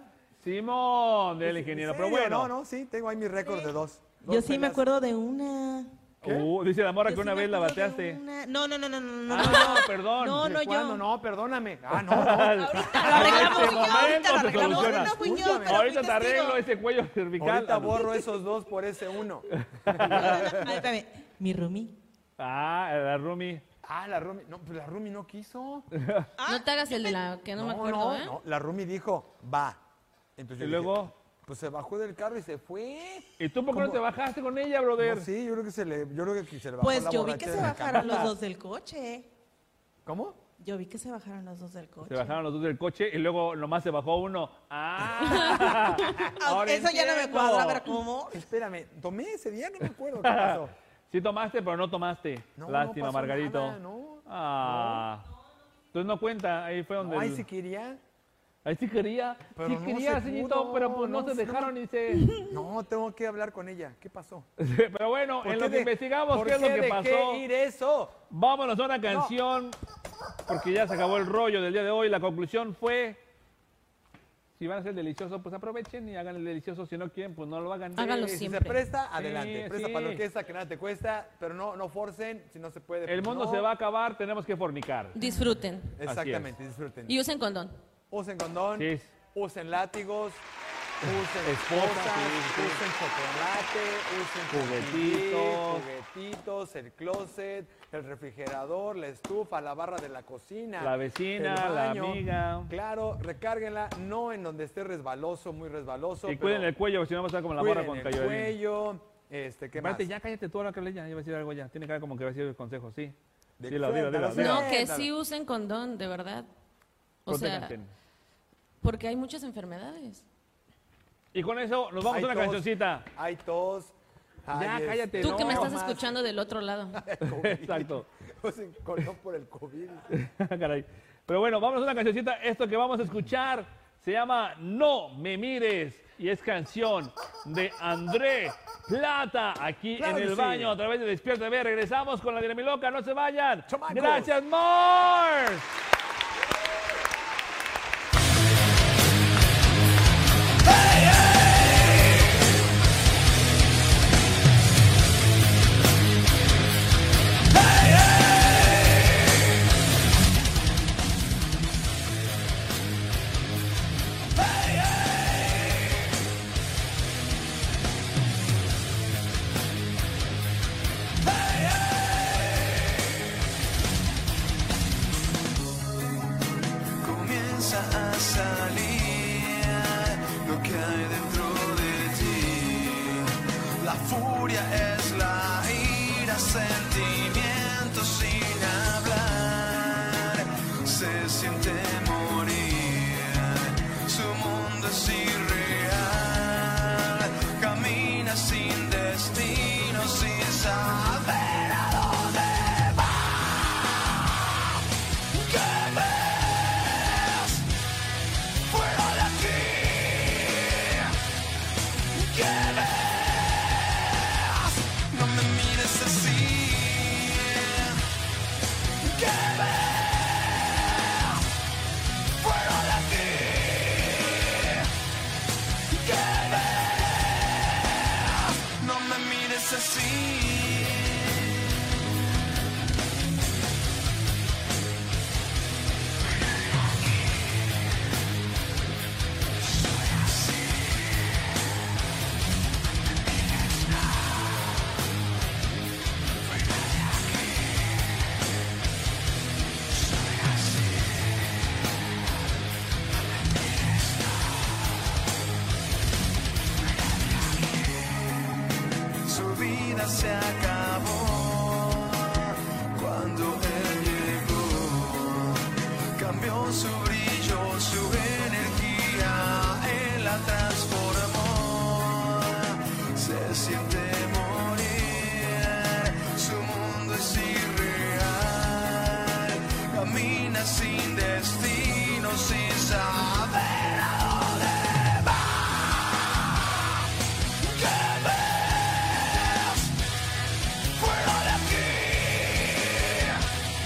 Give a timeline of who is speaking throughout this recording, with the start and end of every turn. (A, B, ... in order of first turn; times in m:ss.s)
0:00.4-0:02.5 A
0:01.4-0:04.8 B
0:04.2-0:05.9 C
0:06.2-0:06.5 B
0:06.2-0:08.2 A
0:07.0-0:11.0 C
0:09.3-0:10.5 A
0:09.4-0:09.7 B
0:10.4-0:15.9 B
0:11.9-0:18.2 A
0:12.7-0:16.6 C
0:12.7-0:13.8 D
0:17.4-0:20.7 B
0:19.5-0:20.7 A
0:20.0-0:21.9 C
0:22.4-0:23.6 A
0:23.8-0:25.9 B
0:25.9-0:26.3 A
0:26.4-0:27.2 C
0:26.4-0:28.4 D
0:27.5-0:29.8 B
0:30.4-0:34.0 B
0:30.6-0:31.1 A
0:33.4-0:35.3 A
0:35.0-0:38.3 B
0:36.8-0:39.3 C
0:37.9-0:38.3 A
0:40.0-0:40.4 B
0:40.6-0:42.4 C
0:42.0-0:47.9 A
0:45.3-0:48.4 C
0:45.3-0:46.2 D
0:48.3-0:50.7 B
0:50.2-0:55.3 A
0:52.6-0:55.0 B
0:55.9-0:57.4 A
0:57.0-0:58.0 B
0:58.6-1:02.4 A
0:59.5-1:01.7 B
1:02.4-1:04.5 B
1:04.6-1:07.4 A
1:05.4-1:08.2 B
1:08.3-1:09.8 A
1:09.0-1:09.3 B
1:10.5-1:13.2 A
1:14.6-1:18.4 A
1:18.0-1:18.8 D
1:18.3-1:23.7 B
1:19.2-1:20.2 A
1:23.0-1:25.2 A
1:25.1-1:26.0 D
1:26.0-1:27.2 B
1:26.0-1:26.5 A
1:27.0-1:27.8 D
1:28.1-1:30.4 B
1:28.8-1:29.1 A
1:31.0-1:46.7 B
1:31.4-1:32.8 A
1:34.5-1:35.8 A
1:40.8-1:42.7 A
1:46.2-1:48.6 A
1:47.6-1:50.1 B
1:49.8-1:53.2 A
1:53.6-1:55.1 B
1:53.7-1:54.7 A
1:54.3-1:56.5 D
1:57.2-1:57.7 D
1:57.3-1:57.9 A
1:58.8-2:00.2 D
2:01.3-2:03.1 A
2:02.1-2:03.9 B
2:04.4-2:06.1 B
2:04.5-2:05.8 A
2:05.2-2:07.0 D
2:06.9-2:10.2 B
2:07.2-2:08.0 A
2:10.1-2:25.7 A
2:20.0-2:20.8 B
2:23.7-2:24.3 B
2:52.2-2:52.5 E
2:57.0-3:24.3 E
3:25.3-3:27.6 E
3:28.7-3:31.1 E
3:32.1-3:38.0 E
3:39.0-3:41.4 E
3:42.4-3:44.9 E
3:45.9-3:52.0 E
4:10.4-4:10.8 E
4:17.0-4:18.5 E
4:19.2-4:46.6 E
4:47.6-4:49.9 E
4:50.9-4:53.4 E